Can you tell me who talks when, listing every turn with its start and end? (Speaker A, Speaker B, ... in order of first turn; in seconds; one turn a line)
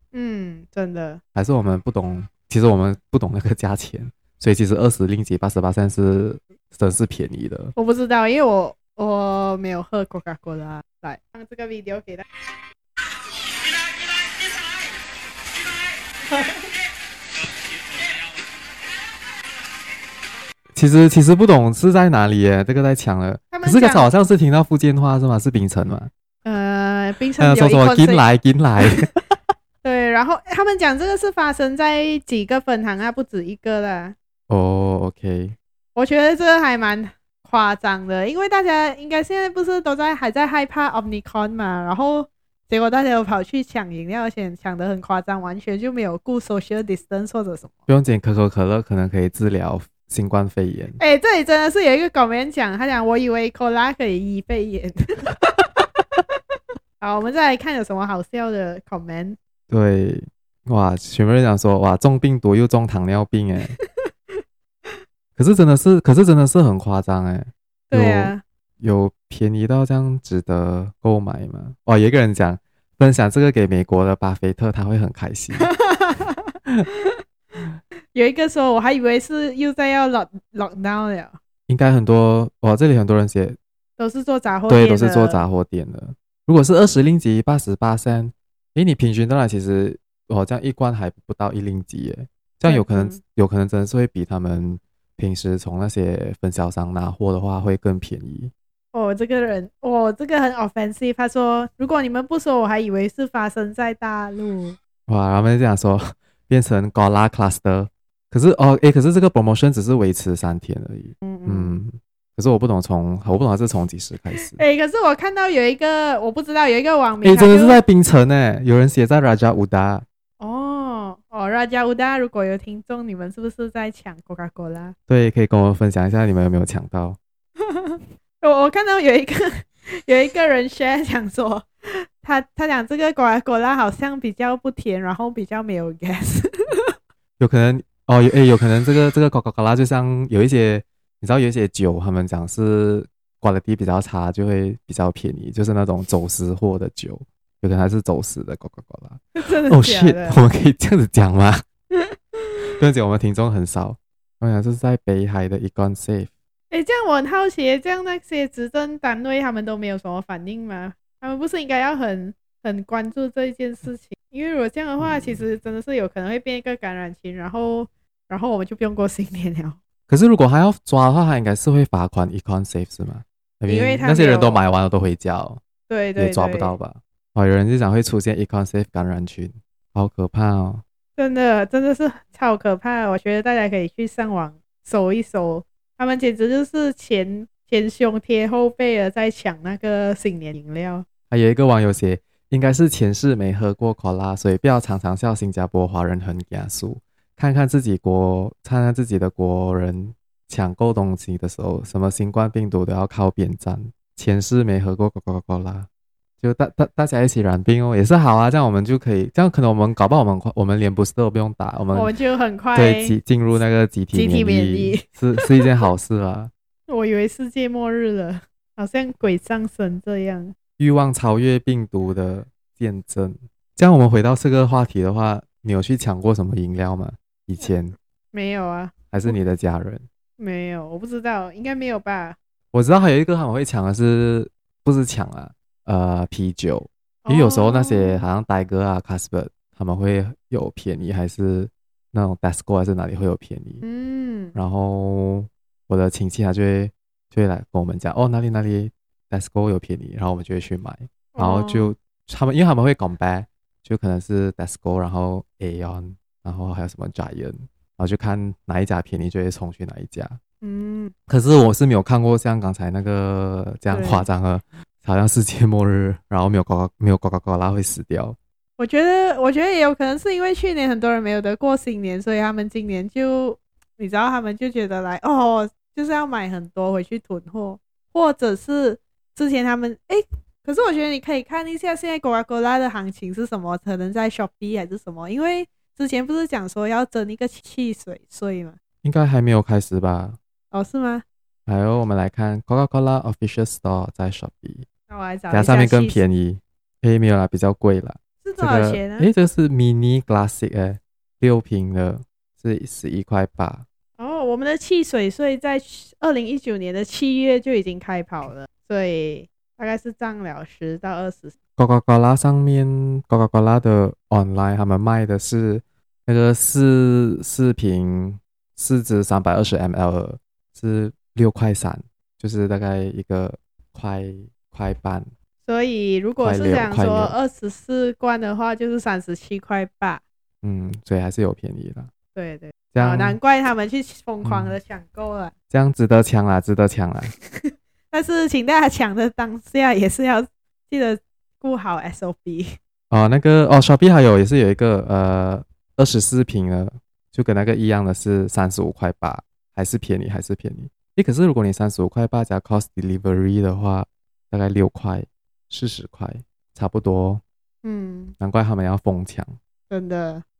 Speaker A: 0.1-1.2
Speaker B: 1.3-7.7
Speaker A: 7.8-12.2
Speaker A: 16.3-16.6
Speaker B: 20.8-26.1
Speaker A: 23.5-24.1
Speaker A: 26.4-28.2
Speaker B: 27.4-29.1
Speaker A: 29.8-34.1
Speaker B: 34.5-35.5
Speaker A: 35.9-47.7
Speaker B: 47.9-51.0
Speaker A: 51.0-55.8
Speaker A: 57.0-59.4
Speaker B: 59.7-63.8
Speaker B: 65.3-75.7
Speaker A: 67.9-68.4
Speaker A: 75.6-76.4
Speaker A: 78.1-81.4
Speaker B: 81.7-83.6
Speaker A: 84.0-85.5
Speaker B: 84.7-98.5
Speaker A: 92.6-93.2
Speaker A: 98.9-104.8
Speaker B: 105.1-114.6
Speaker A: 111.3-111.8
Speaker A: 114.3-117.8
Speaker B: 117.2-120.0
Speaker A: 120.4-124.9
Speaker B: 125.1-127.2
Speaker A: 127.6-136.9
Speaker B: 137.4-151.6
Speaker A: 149.4-150.4
Speaker B: 152.8-156.3
Speaker A: 156.7-169.8
Speaker B: 170.1-175.6
Speaker A: 173.7-174.6
Speaker A: 175.9-176.8
Speaker B: 176.2-180.8
Speaker A: 181.2-191.1
Speaker B: 191.3-205.9
Speaker B: 206.4-212.1
Speaker A: 211.9-213.2
Speaker B: 212.7-216.5
Speaker A: 214.1-215.1
Speaker A: 216.9-220.5
Speaker B: 220.8-227.9
Speaker A: 228.3-229.3
Speaker B: 229.1-230.0
Speaker A: 230.4-232.4
Speaker B: 232.7-243.8
Speaker A: 237.2-238.2
Speaker A: 243.8-244.6
Speaker B: 244.5-260.4
Speaker A: 251.3-251.9
Speaker A: 260.6-261.1
Speaker B: 261.3-268.4
Speaker A: 263.9-264.2
Speaker A: 268.8-288.8
Speaker B: 289.0-290.4
Speaker A: 290.7-291.2
Speaker B: 291.7-294.8
Speaker A: 295.1-296.2
Speaker B: 295.5-303.8
Speaker A: 298.4-299.3
Speaker A: 304.2-311.6
Speaker B: 311.8-325.3
Speaker A: 325.6-330.2
Speaker B: 326.4-327.4
Speaker B: 330.6-332.1
Speaker A: 332.3-335.5
Speaker B: 332.9-333.4
Speaker B: 334.4-334.8
Speaker B: 335.7-337.3
Speaker A: 337.4-342.8
Speaker B: 343.1-357.4
Speaker A: 357.8-358.3
Speaker B: 358.4-359.5
Speaker A: 359.9-360.4